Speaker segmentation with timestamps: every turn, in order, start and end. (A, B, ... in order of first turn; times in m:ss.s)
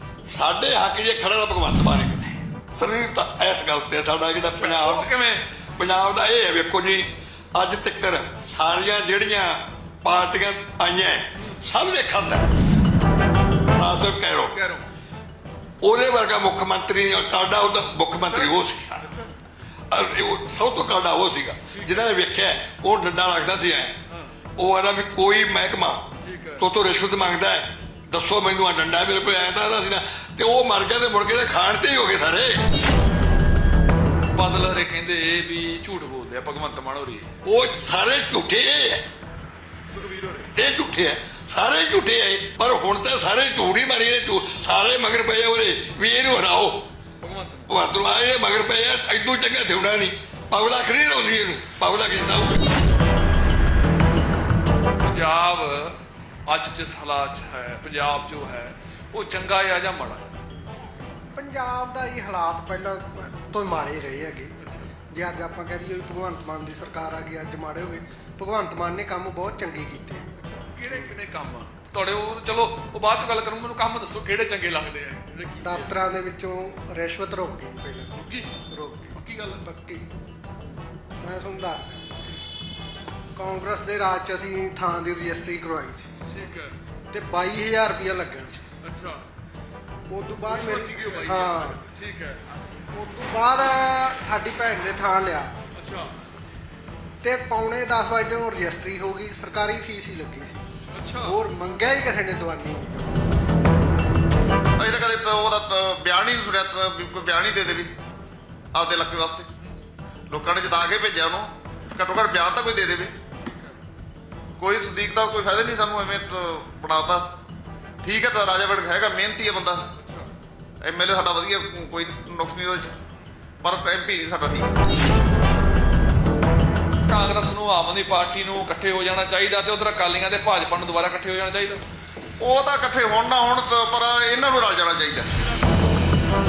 0:00.3-0:05.1 A
0:04.6-0:05.4 B
0:05.8-0:12.4 A
0:13.8-0:14.6 A
0:14.5-0:14.9 B
0:15.8-0:19.1 A
0:18.3-0:19.3 B
0:19.9-0:23.9 A
0:21.7-0:22.1 B
0:24.1-0:24.4 B
0:24.6-0:26.1 A
0:26.2-0:26.6 B
0:26.6-0:32.6 A
0:34.3-0:37.3 B
0:37.4-0:39.0 A
0:39.9-0:40.5 B
0:40.6-0:46.8 A
0:47.2-0:47.7 B
0:47.7-0:52.6 A
0:55.0-1:00.3 B
1:01.3-1:04.6 C
1:04.6-1:04.9 B
1:05.1-1:10.3 C
1:10.4-1:15.9 B
1:15.6-1:19.1 C
1:18.2-1:19.6 B
1:19.6-1:20.0 C
1:21.2-1:22.0 C
1:23.4-1:26.1 C
1:26.3-1:26.8 B
1:27.1-1:28.6 C
1:28.8-1:29.3 B
1:30.1-1:31.8 C
1:30.5-1:32.4 B
1:32.9-1:35.5 C
1:35.7-1:36.2 B
1:37.2-1:40.6 C
1:40.9-1:41.4 B
1:41.2-1:43.2 C
1:44.8-1:47.9 D
1:48.7-1:49.5 D
1:50.3-1:53.1 D
1:53.4-1:53.8 B
1:54.6-1:57.3 D
1:58.0-1:59.8 D
2:00.0-2:00.3 B
2:00.8-2:03.0 D
2:03.6-2:04.7 D
2:07.1-2:11.8 B
2:12.4-2:15.3 D